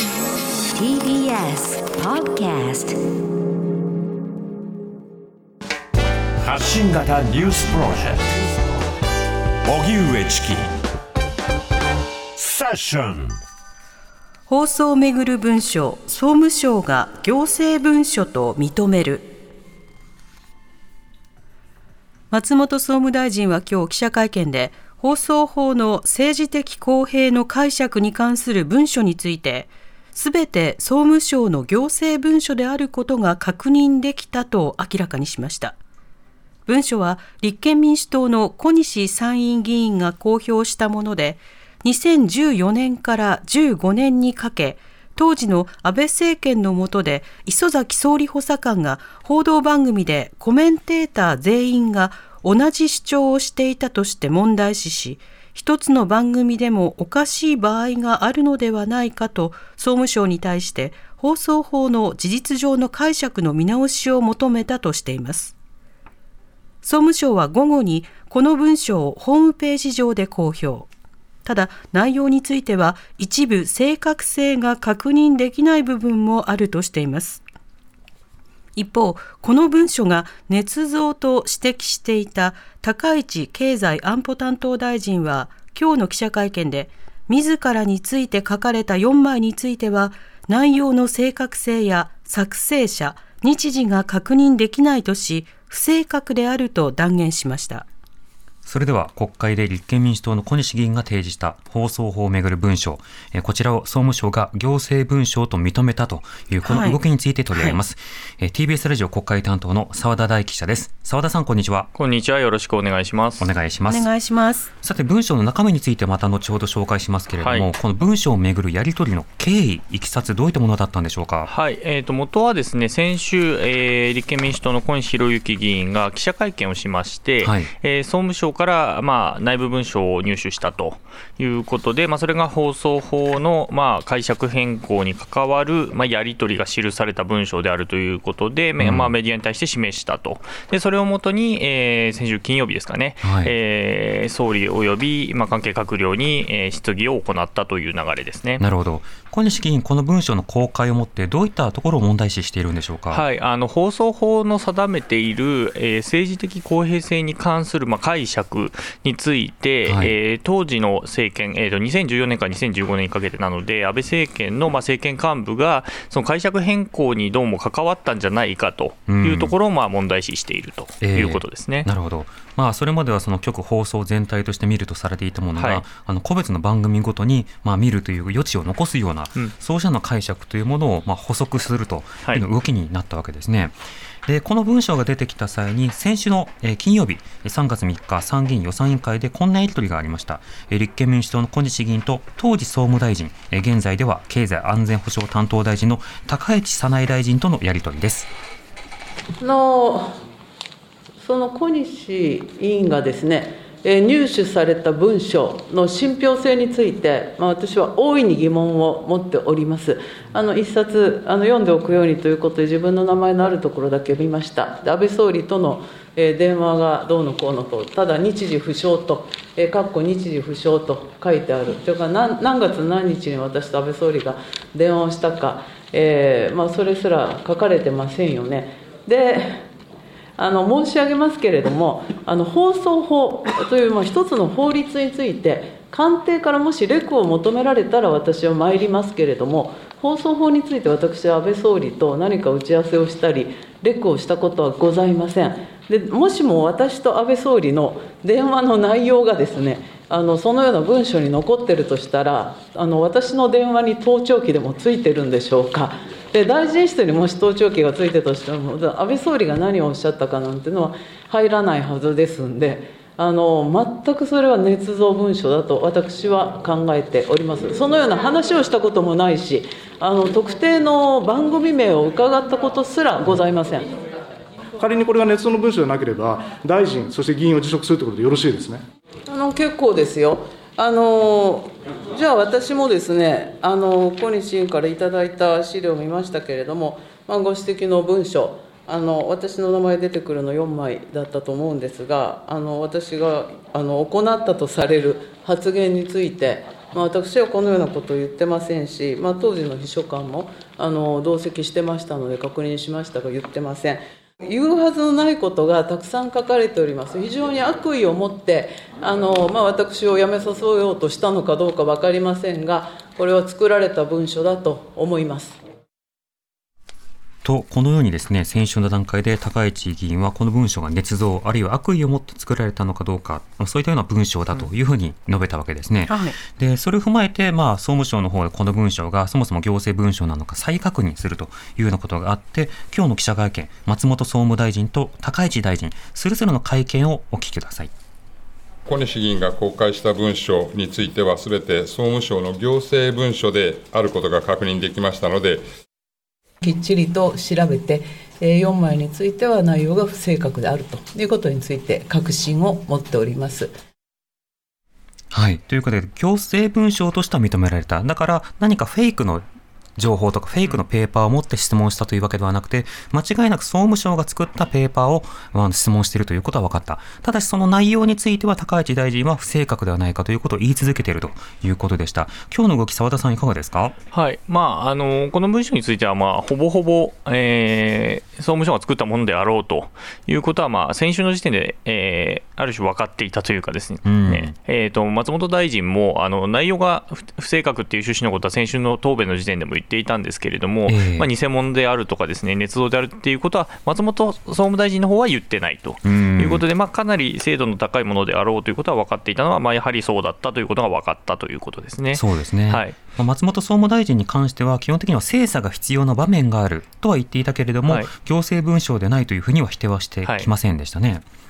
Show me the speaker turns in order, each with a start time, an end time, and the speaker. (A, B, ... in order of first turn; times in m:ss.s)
0:00.7-0:03.0 A
0:06.4-0:08.4 B
0:09.6-0:10.7 B
0:12.4-0:13.4 B
0:14.5-0:19.3 C
0:22.3-0:35.8 C
0:36.7-1:05.5 C
1:06.8-1:10.9 C
1:11.5-1:17.4 C
1:18.8-1:37.9 C
1:38.6-1:51.9 D
1:46.6-1:47.0 C
1:47.5-1:47.8 C
1:52.0-1:53.5 E
1:53.4-1:54.1 D
1:53.9-1:54.7 C
1:54.8-2:01.5 D
1:57.3-1:57.7 E
2:01.4-2:28.6 E
2:07.4-2:07.7 D
2:18.8-2:19.1 D
2:23.2-2:23.5 D
2:28.6-2:33.2 D
2:33.1-2:51.9 E
2:39.8-2:40.2 D
2:49.1-2:49.5 D
2:51.0-3:18.3 D
2:55.6-2:55.8 E
3:19.4-3:20.2 F
3:21.2-3:49.6 F
3:50.4-4:33.9 F
4:33.2-4:33.5 G
4:34.8-4:38.8 G
4:39.3-5:15.6 F
5:17.4-5:37.9 D
5:26.1-5:26.4 C
5:38.9-5:45.6 H
5:46.6-5:53.7 F
5:55.3-5:59.4 D
6:00.0-6:14.0 D
6:14.1-6:43.0 E
6:24.0-6:24.5 D
6:30.9-6:31.3 D
6:36.0-6:36.7 D
6:42.1-6:51.2 D
6:47.8-6:48.1 E
6:50.2-6:50.5 E